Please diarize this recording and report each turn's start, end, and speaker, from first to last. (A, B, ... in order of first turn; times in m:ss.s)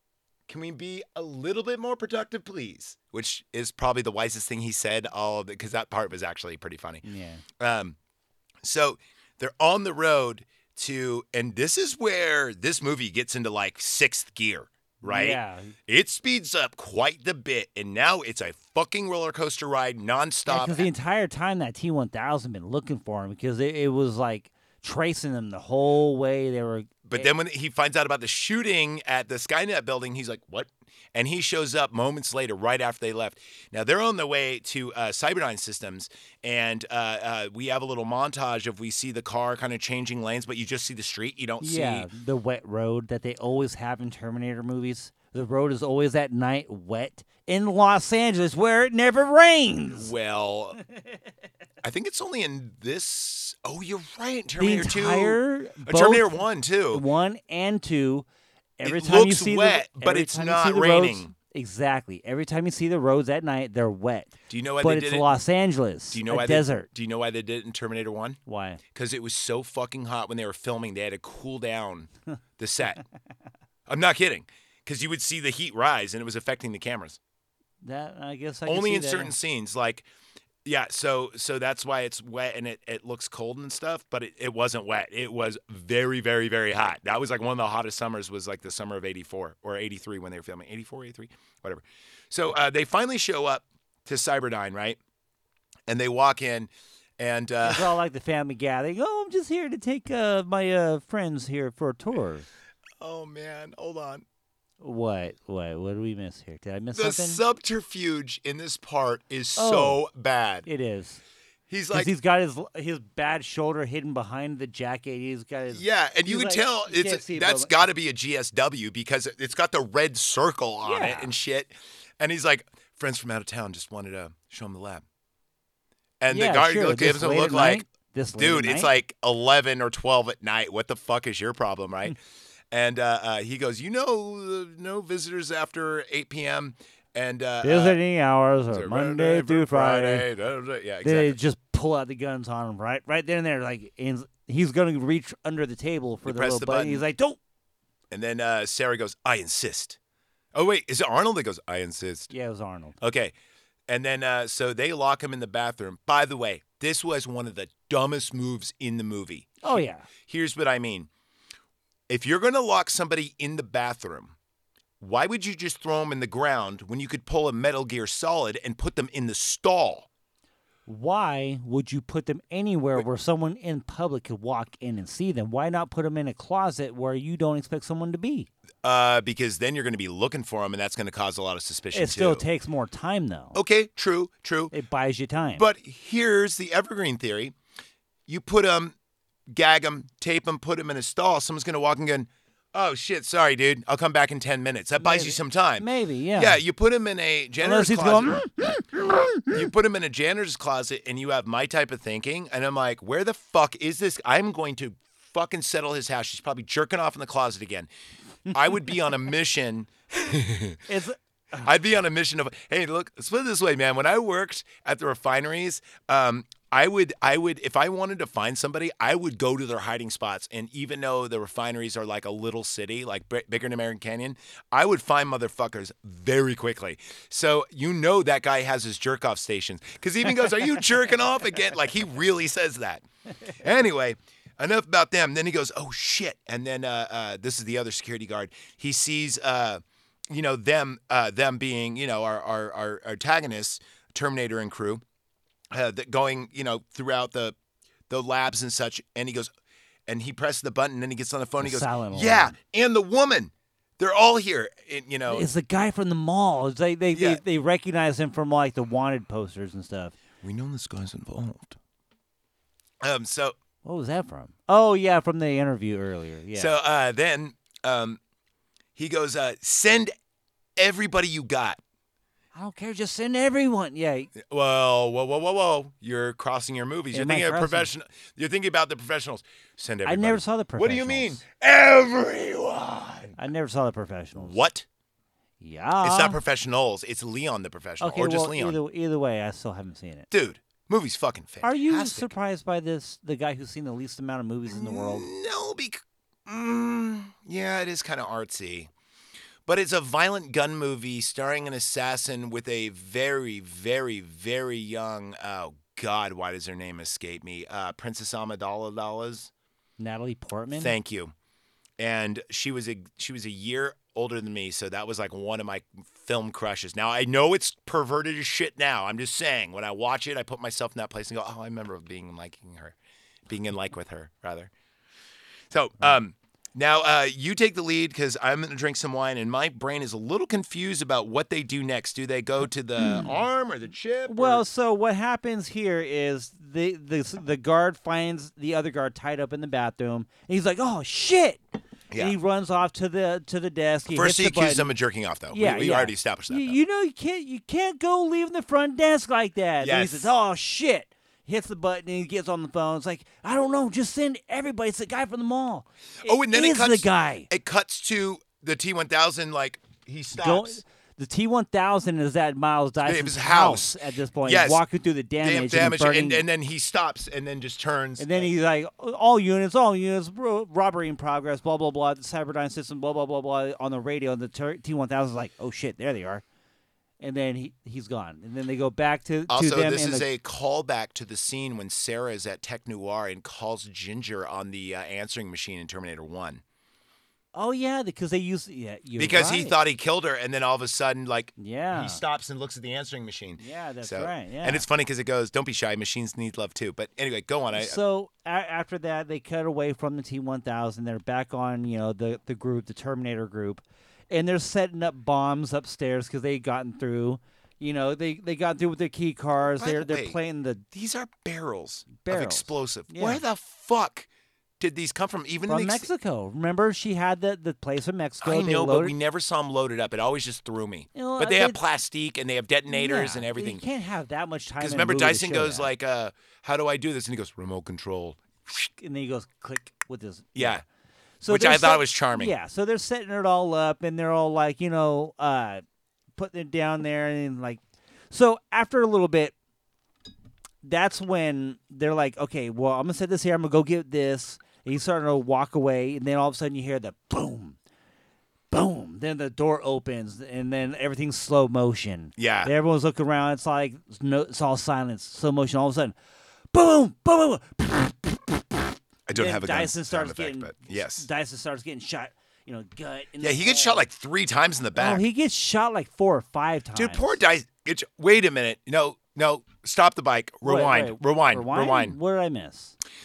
0:00.5-0:07.0 A
0:07.0-0:07.4 B
0:07.6-0:08.0 A
0:08.6-0:20.9 A
0:15.0-0:15.7 B
0:20.5-0:27.3 B
0:27.0-0:42.1 A
0:41.6-0:50.1 B
0:49.9-0:50.8 A
0:51.8-0:57.0 A
0:54.6-0:56.3 B
0:56.9-0:58.3 B
0:58.8-1:06.9 B
0:58.8-1:01.3 A
1:04.5-1:05.3 A
1:06.1-1:08.4 A
1:08.5-1:08.8 B
1:08.9-1:13.0 A
1:13.9-1:17.2 A
1:17.8-1:19.3 B
1:18.7-1:20.1 A
1:20.6-1:35.0 A
1:35.9-1:38.0 A
1:37.6-1:42.5 B
1:43.0-1:44.2 A
1:44.8-1:47.4 B
1:46.9-1:50.7 A
1:49.6-1:50.0 B
1:50.7-1:51.2 B
1:51.7-1:52.1 A
1:51.9-1:57.8 B
1:55.7-2:05.0 A
2:00.8-2:01.3 B
2:06.2-2:07.8 A
2:06.3-2:08.9 B
2:08.4-2:12.2 A
2:12.7-2:18.0 A
2:17.6-2:20.3 B
2:18.7-2:21.4 A
2:21.0-2:27.4 B
2:26.2-2:27.0 A
2:28.1-2:30.0 A
2:30.5-2:32.3 A
2:32.3-2:33.0 B
2:33.0-2:33.3 A
2:33.9-2:41.1 A
2:39.6-2:40.1 B
2:42.1-2:44.4 A
2:45.0-2:50.1 A
2:50.9-2:58.5 B
2:58.8-3:02.4 A
3:01.9-3:03.6 B
3:03.5-3:04.7 A
3:04.7-3:05.7 B
3:05.6-3:07.6 A
3:08.3-3:09.0 A
3:09.5-3:18.6 A
3:15.0-3:16.6 B
3:17.6-3:19.6 B
3:19.5-3:27.9 A
3:28.5-3:30.8 A
3:30.9-3:31.6 B
3:31.6-3:53.0 A
3:53.6-4:05.0 A
4:05.7-4:07.6 A
4:08.1-4:09.5 A
4:10.1-4:15.5 A
4:11.6-4:12.6 B
4:15.3-4:20.2 B
4:17.1-4:17.4 A
4:20.4-4:21.8 A
4:23.0-4:23.6 A
4:23.8-4:26.8 B
4:26.6-4:28.2 A
4:29.0-4:30.2 A
4:30.8-4:31.8 A
4:32.6-4:34.3 B
4:34.4-4:43.4 A
4:37.1-4:37.9 B
4:40.0-4:41.4 B
4:43.4-4:44.6 B
4:44.4-4:44.9 A
4:45.6-4:46.4 B
4:46.0-4:48.8 A
4:48.0-4:50.3 B
4:50.3-4:52.3 A
4:51.6-4:55.3 B
4:54.7-4:58.9 A
4:59.7-5:09.5 A
5:10.0-5:11.0 B
5:10.7-5:11.3 A
5:12.0-5:23.0 A
5:23.5-5:24.7 A
5:25.7-5:34.6 A
5:34.3-5:41.6 B
5:42.2-5:44.9 B
5:44.1-5:46.8 A
5:45.5-5:57.5 B
5:49.8-5:50.3 A
5:56.2-6:00.8 A
6:00.4-6:06.4 B
6:03.0-6:04.8 A
6:05.4-6:08.5 A
6:08.2-6:16.4 B
6:17.2-6:20.2 B
6:19.5-6:26.6 A
6:27.5-6:29.8 B
6:29.2-6:38.0 A
6:31.6-6:32.2 B
6:33.6-6:34.8 B
6:37.7-6:50.8 B
6:49.6-6:50.4 A
6:50.9-6:54.3 A
6:52.2-6:53.4 B
6:54.8-6:56.1 A
6:55.7-6:59.1 B
6:58.4-7:03.8 A
7:01.2-7:01.8 B
7:02.9-7:05.9 B
7:04.8-7:08.9 A
7:09.0-7:10.8 B
7:10.6-7:10.8 A
7:11.4-7:15.8 B
7:11.5-7:12.5 A
7:16.4-7:17.8 B
7:18.3-7:19.5 B
7:20.8-7:27.8 B
7:28.7-7:36.2 B
7:32.4-7:32.7 A
7:36.7-7:44.0 B
7:39.3-7:41.3 A
7:43.4-7:45.2 A
7:45.0-7:47.4 B
7:47.0-7:52.2 A
7:50.6-7:53.0 B